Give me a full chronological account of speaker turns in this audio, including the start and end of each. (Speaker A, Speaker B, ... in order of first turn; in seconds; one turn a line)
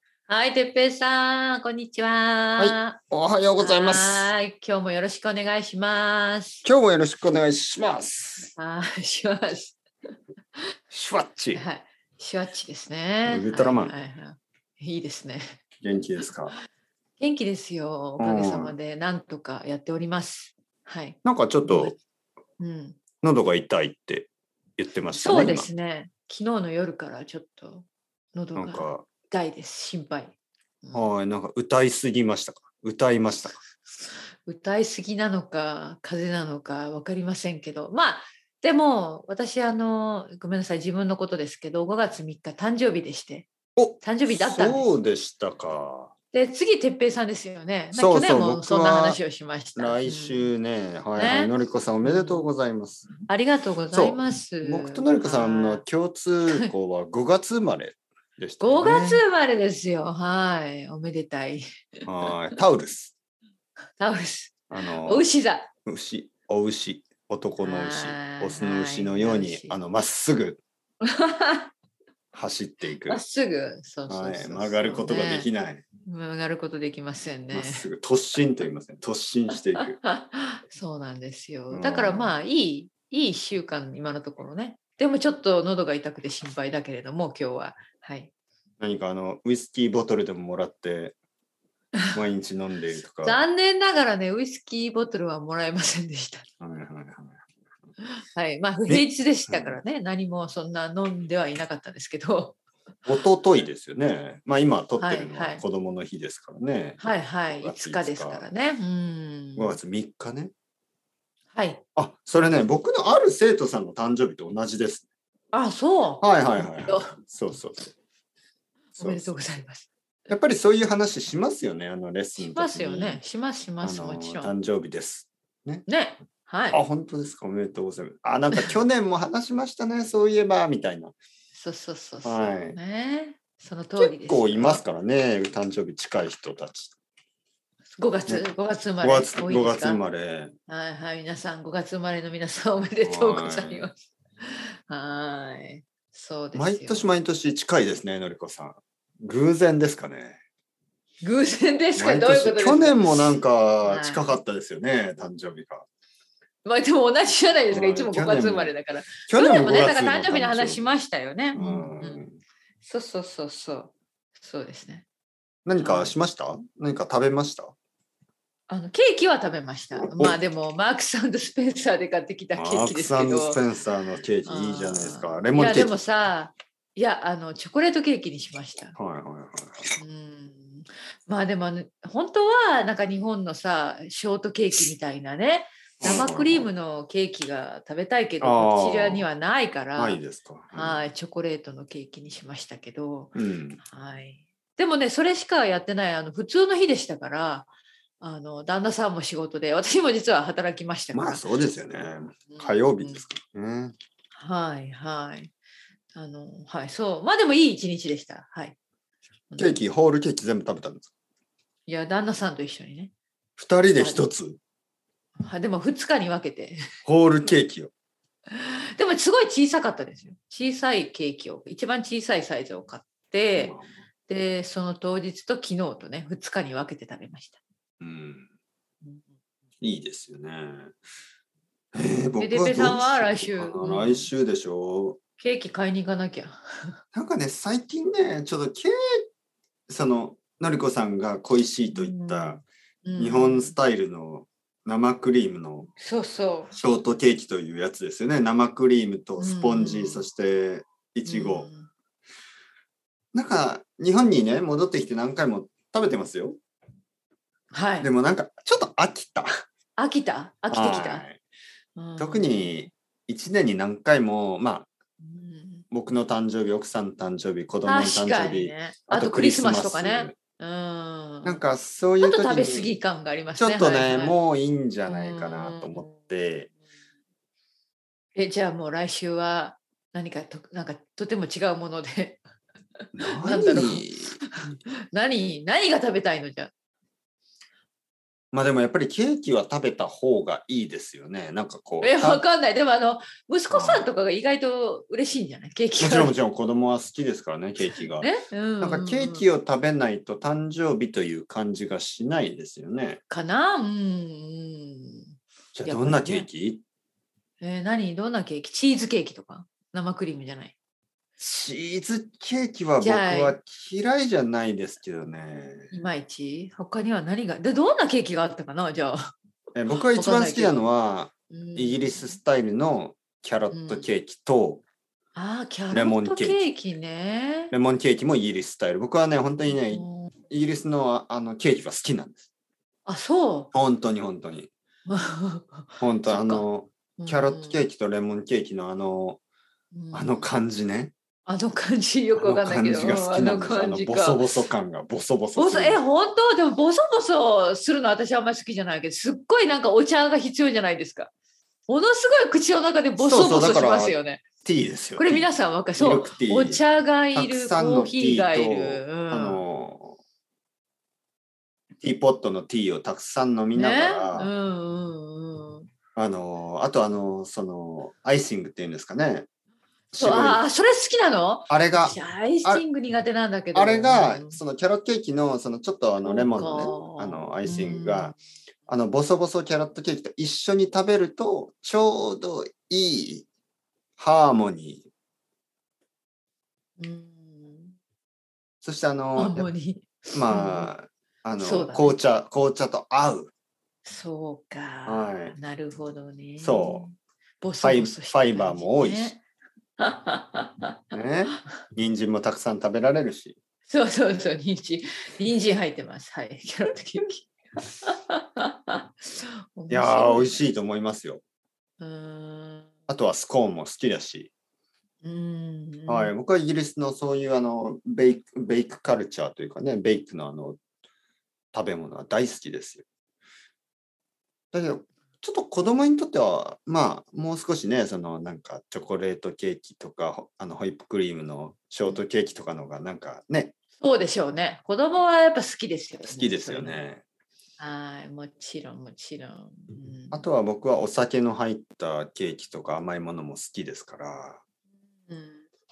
Speaker A: 0.3-3.0
Speaker B: 2.6-4.3
Speaker A: 3.6-6.6
Speaker B: 6.6-8.5
Speaker A: 8.6-9.8
Speaker B: 10.9-11.6
Speaker A: 11.6-15.6
Speaker B: 13.2-13.9
Speaker B: 15.8-16.6
Speaker A: 17.2-22.0
Speaker B: 18.2-18.7
Speaker B: 21.2-22.0
Speaker A: 22.6-23.0
Speaker B: 23.2-25.7
Speaker A: 25.1-31.1
Speaker B: 28.6-29.1
Speaker B: 30.9-33.6
Speaker A: 34.5-43.5
Speaker B: 43.8-46.1
Speaker A: 44.0-44.9
Speaker A: 46.3-50.5
Speaker B: 47.9-49.2
Speaker B: 49.8-53.1
Speaker A: 51.2-51.5
Speaker A: 52.0-52.5
Speaker A: 53.3-55.8
Speaker B: 53.9-59.2
Speaker A: 56.5-56.7
Speaker A: 58.6-61.6
Speaker B: 62.1-63.1
Speaker A: 64.0-65.7
Speaker B: 64.7-65.3
Speaker B: 65.9-70.6
Speaker A: 67.6-69.8
Speaker A: 71.0-71.7
Speaker B: 72.3-73.2
Speaker A: 73.1-75.5
Speaker B: 74.1-75.8
Speaker A: 76.1-77.9
Speaker B: 77.5-80.0
Speaker A: 79.8-88.3
Speaker B: 81.7-82.4
Speaker B: 88.8-91.2
Speaker B: 92.1-93.4
Speaker A: 93.2-96.5
Speaker B: 96.6-97.4
Speaker A: 98.3-102.6
Speaker B: 98.9-99.8
Speaker B: 103.1-108.5
Speaker A: 105.0-105.6
Speaker A: 107.0-109.8
Speaker B: 109.6-110.5
Speaker A: 111.5-111.8
Speaker B: 112.0-115.1
Speaker A: 115.5-117.1
Speaker B: 116.2-117.9
Speaker A: 118.9-119.9
Speaker B: 119.0-119.4
Speaker B: 120.3-123.2
Speaker A: 122.4-124.5
Speaker B: 123.8-125.9
Speaker A: 125.9-126.8
Speaker B: 126.7-131.2
Speaker A: 131.5-134.8
Speaker B: 132.2-132.8
Speaker B: 134.0-136.9
Speaker A: 138.0-140.0
Speaker B: 139.0-140.5
Speaker A: 140.7-147.1
Speaker B: 143.0-143.9
Speaker B: 146.5-150.4
Speaker A: 151.2-154.4
Speaker B: 152.0-155.9
Speaker A: 156.6-162.2
Speaker B: 157.7-158.7
Speaker B: 159.2-160.9
Speaker B: 161.5-162.4
Speaker A: 162.8-165.1
Speaker B: 165.7-167.8
Speaker A: 165.8-166.1
Speaker A: 168.7-173.6
Speaker B: 169.9-170.4
Speaker B: 172.6-176.0
Speaker A: 174.4-178.9
Speaker B: 179.0-180.0
Speaker A: 180.0-190.2
Speaker B: 186.0-186.7
Speaker B: 188.4-189.3
Speaker B: 190.0-191.0
Speaker A: 190.7-201.4
Speaker B: 193.3-193.8
Speaker B: 201.1-203.9
Speaker A: 202.5-203.2
Speaker A: 204.3-205.5
Speaker A: 206.1-208.8
Speaker A: 209.5-209.8
Speaker B: 209.6-211.1
Speaker A: 211.9-213.1
Speaker B: 213.6-214.6
Speaker A: 213.9-214.3
Speaker A: 215.4-216.8
Speaker B: 217.1-217.9
Speaker A: 218.5-223.8
Speaker B: 223.6-224.0
Speaker A: 224.3-227.6
Speaker B: 228.0-228.5
Speaker B: 229.8-231.0
Speaker B: 231.9-235.2
Speaker A: 232.4-234.3
Speaker A: 235.4-237.0
Speaker B: 237.1-239.2
Speaker B: 239.9-242.6
Speaker A: 241.9-243.8
Speaker B: 243.2-245.9
Speaker A: 246.0-246.7
Speaker B: 246.7-251.7
Speaker A: 249.4-250.2
Speaker A: 251.3-251.9
Speaker B: 253.3-256.6
Speaker A: 257.7-258.1
Speaker B: 258.0-259.5
Speaker A: 260.0-261.3
Speaker B: 260.7-261.4
Speaker A: 262.0-262.9
Speaker B: 262.2-264.9
Speaker A: 265.2-265.9
Speaker B: 265.9-270.4
Speaker A: 267.9-271.6
Speaker B: 271.4-272.9
Speaker A: 272.2-274.4
Speaker B: 273.6-276.7
Speaker A: 275.1-276.2
Speaker A: 278.4-282.4
Speaker B: 283.1-284.4
Speaker A: 283.3-286.7
Speaker B: 288.5-292.4
Speaker A: 292.0-296.3
Speaker B: 293.7-294.1
Speaker B: 296.0-298.3
Speaker A: 297.9-299.4
Speaker B: 298.8-303.2
Speaker A: 303.3-305.3
Speaker B: 305.8-306.8
Speaker A: 305.9-306.5
Speaker A: 307.6-310.7
Speaker B: 311.4-315.9
Speaker A: 313.0-313.6
Speaker A: 315.9-319.2
Speaker B: 319.8-324.8
Speaker A: 319.9-320.8
Speaker A: 321.5-322.4
Speaker A: 323.7-324.1
Speaker A: 325.4-327.7
Speaker B: 325.9-326.6
Speaker B: 327.7-332.5
Speaker A: 329.7-330.3
Speaker A: 333.1-333.7
Speaker B: 333.7-334.7
Speaker A: 335.1-336.7
Speaker B: 336.0-339.4
Speaker A: 337.2-337.8
Speaker A: 339.9-340.5
Speaker B: 340.1-341.1
Speaker A: 341.5-344.4
Speaker B: 342.4-346.0
Speaker A: 345.6-351.3
Speaker A: 351.9-354.4
Speaker B: 353.2-360.2
Speaker A: 355.2-359.6
Speaker B: 362.0-364.5
Speaker A: 363.8-365.9
Speaker B: 366.2-369.5
Speaker A: 370.1-374.6
Speaker B: 370.1-370.6
Speaker B: 371.7-372.9
Speaker B: 373.7-378.4
Speaker A: 376.2-378.4
Speaker B: 378.9-383.5
Speaker B: 384.2-385.1
Speaker A: 387.0-387.9
Speaker B: 388.8-389.7
Speaker A: 389.4-390.9
Speaker B: 390.3-393.5
Speaker A: 391.6-392.2
Speaker A: 394.1-399.4
Speaker B: 395.1-395.6
Speaker B: 396.6-397.1
Speaker B: 397.8-399.4
Speaker A: 400.0-401.0
Speaker B: 401.1-403.6
Speaker A: 403.9-410.6
Speaker B: 409.9-411.4
Speaker A: 412.0-412.9
Speaker B: 413.1-414.5
Speaker A: 415.2-416.3
Speaker B: 416.1-420.8
Speaker B: 421.7-423.1
Speaker B: 424.7-433.7
Speaker A: 434.0-437.0
Speaker B: 436.3-437.2
Speaker A: 437.8-440.4
Speaker B: 440.3-444.6
Speaker A: 445.3-445.6